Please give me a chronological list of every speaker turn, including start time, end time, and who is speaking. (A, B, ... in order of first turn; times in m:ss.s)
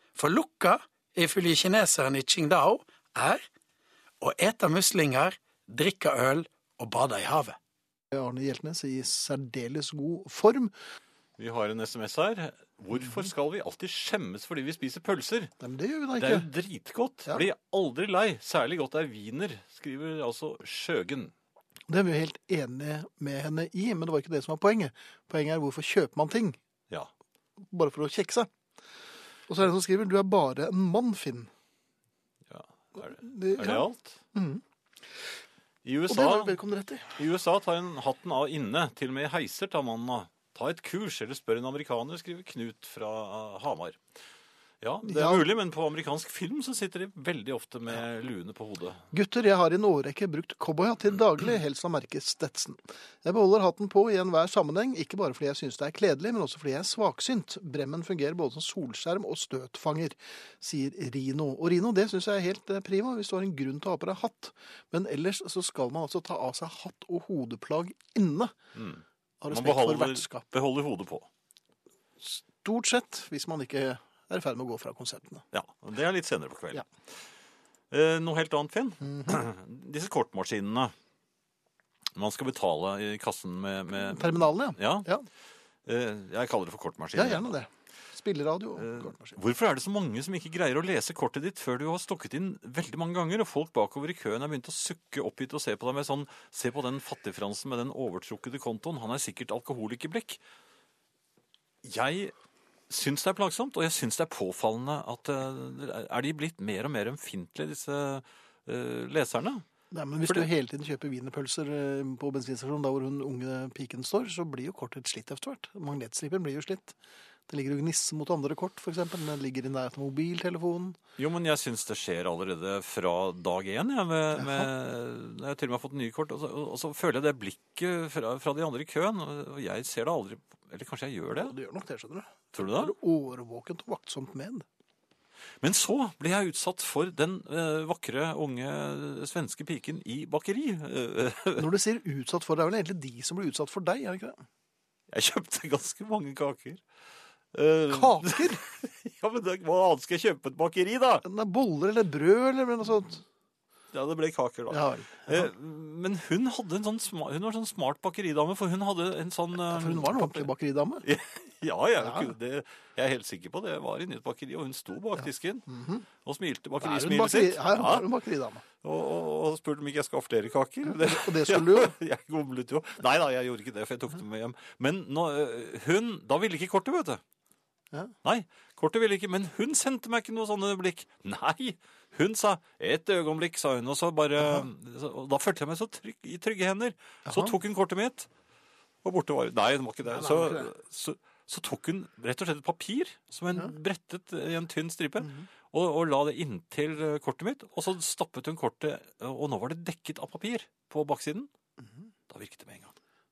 0:00.2-0:03.4 A
0:04.2-0:07.6 A
0:08.1-0:10.7 B
0:11.4-0:15.5 C
0:15.6-0:16.5 B
0:16.2-0:21.3 C
0:21.9-0:26.6 B
0:27.7-0:28.5 B
0:29.5-0:31.5 B
0:32.5-0:34.2 C
0:33.0-0:34.6 B
0:35.8-0:36.6 C
0:36.1-0:37.2 B
0:37.2-0:44.0 C
0:44.8-0:49.0 C
0:45.0-0:45.5 B
0:49.1-1:08.5 B
1:08.8-1:11.3 C
1:09.4-1:10.4 B
1:12.2-1:15.4 B
1:15.5-1:16.9 C
1:17.9-1:20.9 C
1:19.0-1:19.4 B
1:22.2-1:25.1 C
1:23.9-1:25.3 B
1:25.9-1:27.5 C
1:27.1-1:29.4 B
1:28.8-1:40.4 C
1:41.8-1:42.3 C
1:42.9-1:49.6 C
1:49.9-1:57.0 B
1:57.5-2:01.0 B
2:01.2-2:11.6 C
2:04.4-2:04.7 B
2:11.4-2:14.6 B
2:12.5-2:12.9 C
2:15.6-2:21.7 C
2:21.6-2:24.4 B
2:25.1-2:26.8 C
2:27.5-2:31.2 C
2:27.9-2:28.6 B
2:31.2-2:33.2 B
2:33.9-2:40.5 C
2:34.7-2:35.5 B
2:39.6-2:41.0 B
2:41.0-2:45.7 C
2:42.0-2:42.3 B
2:45.7-2:46.0 B
2:46.2-2:48.1 C
2:46.8-2:48.6 B
2:48.8-2:57.2 C
2:50.9-2:52.0 B
2:58.2-3:08.3 C
3:07.3-3:07.5 B
3:09.0-3:21.5 C
3:10.2-3:10.7 B
3:22.3-3:23.0 C